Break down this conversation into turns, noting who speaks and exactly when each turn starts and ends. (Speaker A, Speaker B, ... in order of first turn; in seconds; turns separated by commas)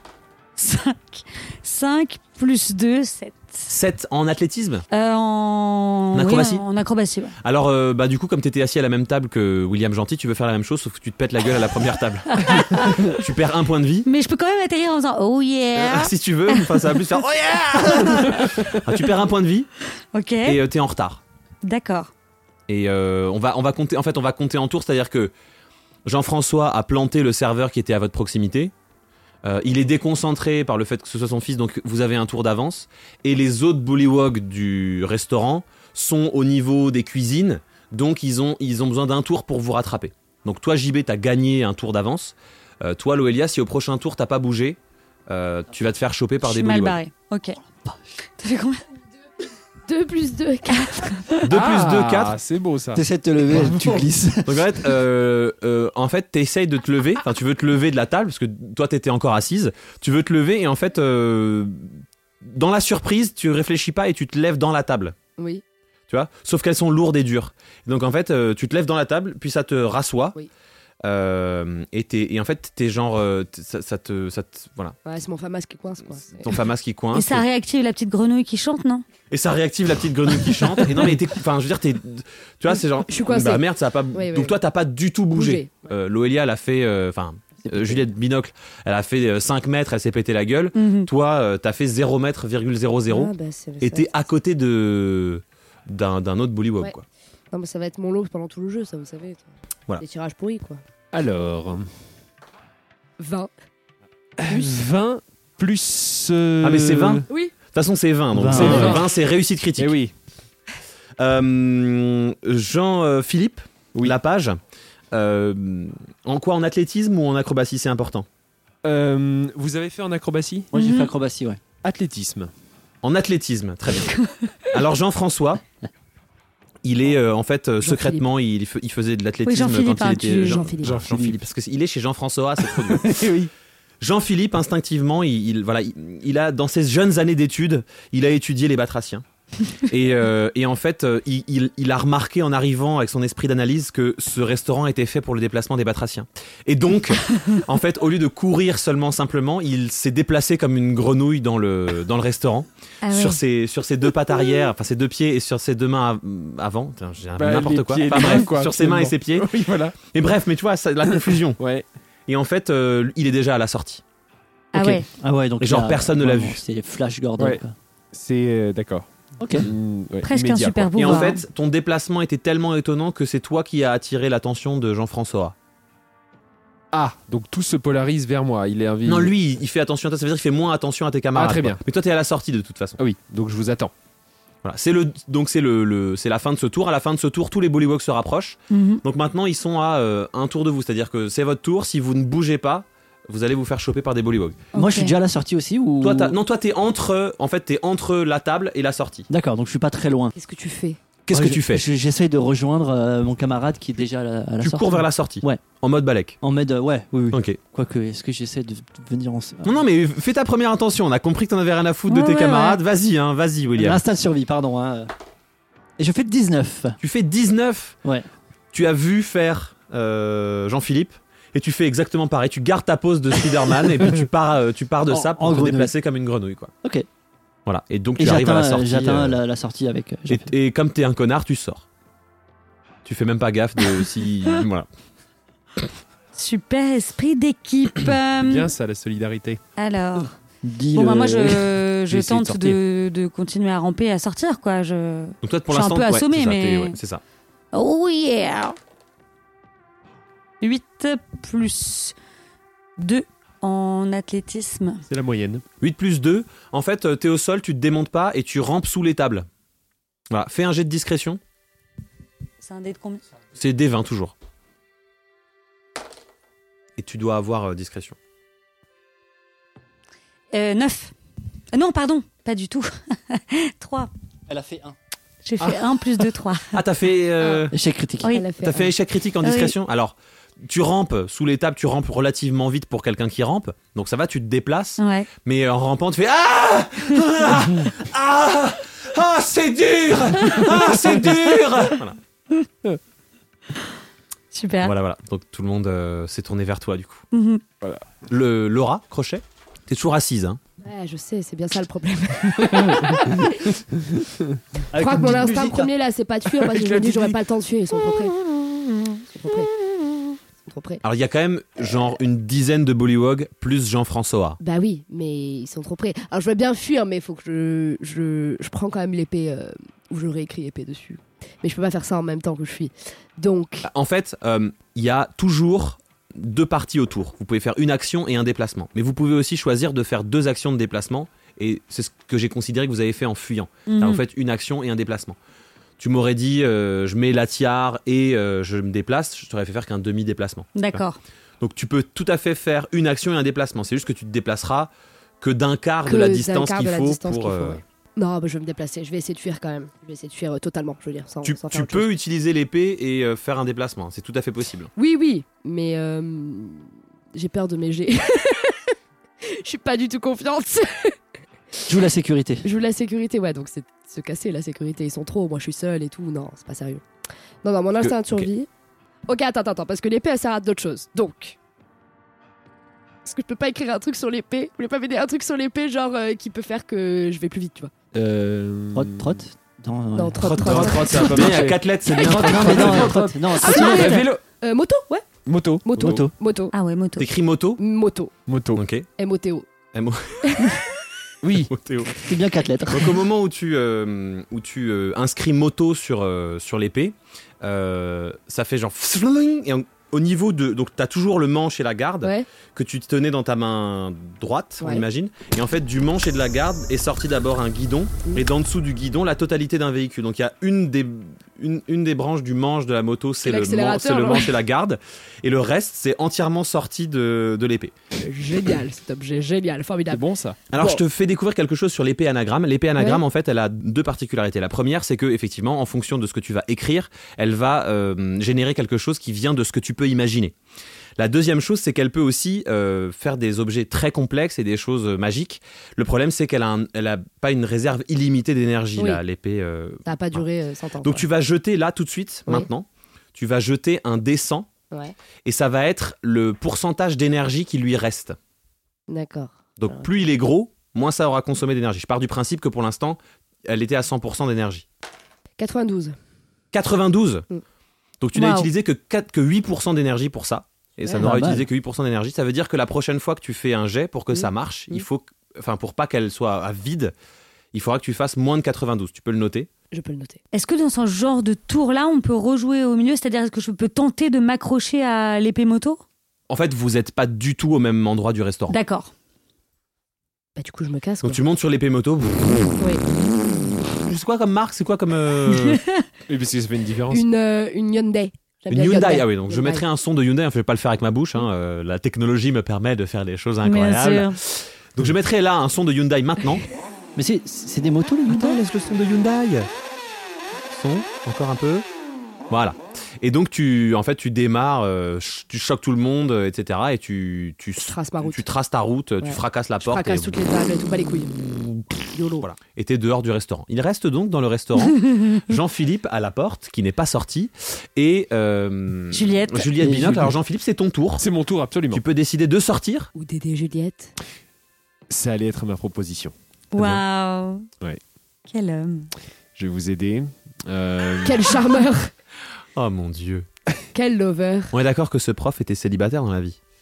Speaker A: 0.6-3.6, Speaker B: 3.7-4.8, Speaker A: 4.9-7.4, Speaker B: 6.1-6.6, Speaker B: 7.4-14.1, Speaker A: 12.3-13.1, Speaker A: 14.1-17.0, Speaker B: 15.8-19.7, Speaker A: 17.9-18.4, Speaker A: 20.1-20.6, Speaker B: 20.4-21.2, Speaker A: 21.6-22.1, Speaker B: 22.7-25.3, Speaker B: 26.1-28.7, Speaker B: 29.4-47.0, Speaker A: 46.4-47.6, Speaker A: 48.4-48.8, Speaker C: 49.9-51.4, Speaker A: 50.8-51.1, Speaker B: 51.4-52.4, Speaker D: 51.5-53.0, Speaker E: 52.9-54.9, Speaker D: 53.6-54.0, Speaker B: 54.4-65.2, Speaker C: 65.4-65.6, Speaker B: 66.1-70.4, Speaker B: 71.0-75.0, Speaker C: 75.0-76.5, Speaker B: 76.4-77.4, Speaker A: 77.1-79.0, Speaker B: 79.3-97.0, Speaker C: 83.1-84.5, Speaker C: 85.3-85.7, Speaker E: 87.6-88.0, Speaker A: 90.8-91.1, Speaker C: 93.1-94.1, Speaker C: 97.5-99.5, Speaker C: 100.0-100.8, Speaker D: 101.1-101.9, Speaker C: 103.2-103.5, Speaker D: 104.4-107.3, Speaker C: 104.5-104.8, Speaker B: 106.6-109.9, Speaker E: 108.3-109.0, Speaker D: 108.5-109.1, Speaker D: 109.8-110.1, Speaker B: 111.2-114.6, Speaker B: 115.1-118.2, Speaker D: 118.8-120.7, Speaker E: 120.7-121.6, Speaker A: 120.8-121.1, Speaker D: 121.8-122.5, Speaker B: 123.0-124.1, Speaker B: 124.7-125.6, Speaker B: 126.8-133.2, Speaker C: 127.8-128.2, Speaker A: 129.5-130.7, Speaker C: 130.5-131.0, Speaker D: 130.8-131.4, Speaker D: 132.7-133.5, Speaker B: 134.0-161.6, Speaker A: 153.0-153.4, Speaker D: 157.4-160.0, Speaker D: 161.6-161.8, Speaker B: 162.3-164.0, Speaker A: 164.7-165.1, Speaker E: 164.7-167.7, Speaker B: 165.6-166.6, Speaker D: 168.1-171.3, Speaker E: 169.4-169.7, Speaker A: 170.2-171.4, Speaker B: 171.0-175.5, Speaker D: 176.9-179.3, Speaker B: 179.0-183.0, Speaker D: 181.3-181.8, Speaker D: 183.0-183.9, Speaker B: 184.6-194.6, Speaker A: 188.7-189.0, Speaker A: 194.7-195.1, Speaker E: 194.7-196.4, Speaker B: 196.0-199.3, Speaker E: 199.3-200.3, Speaker C: 200.4-201.0, Speaker B: 201.2-201.8, Speaker E: 201.3-205.6, Speaker B: 204.6-206.4, Speaker E: 206.4-209.7, Speaker B: 207.3-207.6, Speaker B: 209.6-214.0, Speaker A: 212.1-212.8, Speaker E: 213.8-215.1, Speaker E: 216.0-217.0, Speaker B: 217.0-218.0, Speaker B: 218.7-226.7, Speaker E: 225.1-225.9, Speaker B: 227.7-229.4, Speaker E: 228.2-230.5, Speaker B: 230.3-231.9, Speaker B: 233.0-234.9, Speaker A: 236.4-238.7, Speaker D: 238.4-239.6, Speaker A: 239.8-240.3, Speaker E: 240.6-241.7, Speaker A: 240.9-247.0, Speaker B: 245.4-247.2, Speaker A: 247.7-248.8, Speaker A: 250.6-252.1, Speaker A: 253.0-255.0, Speaker D: 255.1-255.6, Speaker B: 255.8-259.5, Speaker B: 260.3-261.4, Speaker A: 262.6-263.2, Speaker B: 263.6-264.3, Speaker B: 267.0-268.1, Speaker A: 270.5-271.1, Speaker A: 271.7-274.1, Speaker E: 274.5-275.0, Speaker A: 275.4-276.8, Speaker B: 276.7-277.7, Speaker E: 277.7-278.3, Speaker C: 278.3-278.9, Speaker B: 278.6-292.2, Speaker A: 279.4-279.8, Speaker A: 285.0-285.3, Speaker D: 290.4-291.1, Speaker A: 294.5-294.9, Speaker B: 294.8-297.2, Speaker A: 297.3-297.6, Speaker B: 298.3-300.6, Speaker C: 300.8-303.8, Speaker E: 304.9-305.9, Speaker C: 304.9-308.4, Speaker D: 306.6-307.4, Speaker C: 309.3-309.7, Speaker C: 310.6-311.0, Speaker B: 311.0-314.6, Speaker C: 314.6-323.9, Speaker B: 323.8-335.4, Speaker A: 333.9-334.2, Speaker B: 336.0-341.0, Speaker A: 340.8-341.2, Speaker B: 341.6-347.8, Speaker C: 346.1-352.1, Speaker B: 351.4-354.9, Speaker C: 355.0-358.9, Speaker C: 359.4-361.1, Speaker E: 361.9-362.6, Speaker C: 362.6-367.0, Speaker C: 367.6-368.7, Speaker B: 368.0-368.5, Speaker C: 369.3-371.6, Speaker C: 373.2-377.9, Speaker D: 378.1-379.4, Speaker E: 378.9-381.1, Speaker C: 380.1-382.6, Speaker B: 380.4-383.3, Speaker D: 381.0-384.4, Speaker E: 382.3-384.3, Speaker C: 383.6-385.3, Speaker A: 383.6-384.2, Speaker D: 385.4-386.2, Speaker C: 385.8-386.7, Speaker E: 386.0-386.3, Speaker A: 386.7-387.3, Speaker B: 387.2-387.8, Speaker C: 387.8-388.4, Speaker D: 388.5-388.8, Speaker B: 388.7-389.1, Speaker C: 389.1-389.7, Speaker B: 389.9-390.7, Speaker C: 390.4-390.8, Speaker D: 391.4-391.7, Speaker B: 391.7-392.2, Speaker E: 392.2-393.2, Speaker B: 392.9-417.9, Speaker C: 413.4-414.5, Speaker C: 418.2-421.0, Speaker D: 420.1-420.6, Speaker B: 420.7-430.6, Speaker B: 431.2-440.4, Speaker C: 440.1-441.2, Speaker B: 441.0-444.7, Speaker B: 445.4-448.4, Speaker C: 449.1-450.1, Speaker B: 449.8-454.9, Speaker C: 455.6-456.1, Speaker B: 456.7-457.5, Speaker B: 458.2-467.1, Speaker A: 458.4-458.7, Speaker E: 461.2-461.7, Speaker C: 464.3-465.1, Speaker B: 467.7-469.7, Speaker C: 469.9-470.4, Speaker A: 470.5-476.0, Speaker B: 476.5-478.8, Speaker A: 478.7-479.1, Speaker C: 480.6-481.4, Speaker B: 481.2-482.8, Speaker C: 482.8-483.1, Speaker B: 483.9-485.8, Speaker A: 485.5-486.0, Speaker D: 486.3-487.2, Speaker C: 487.1-489.8, Speaker B: 488.7-496.6, Speaker A: 493.6-494.4, Speaker E: 497.1-498.6, Speaker B: 498.3-499.7, Speaker B: 500.7-501.9, Speaker B: 502.5-510.4, Speaker C: 507.8-508.4, Speaker C: 509.2-511.3, Speaker B: 511.4-521.2, Speaker C: 512.1-512.4, Speaker A: 519.1-519.7, Speaker E: 519.8-520.3, Speaker D: 521.2-522.0, Speaker B: 521.9-523.1, Speaker C: 523.1-524.1, Speaker D: 525.1-527.0, Speaker A: 526.7-527.7, Speaker A: 528.5-529.1, Speaker D: 529.6-531.5, Speaker C: 531.2-532.1, Speaker B: 532.8-533.5, Speaker C: 533.9-534.7, Speaker B: 534.7-536.6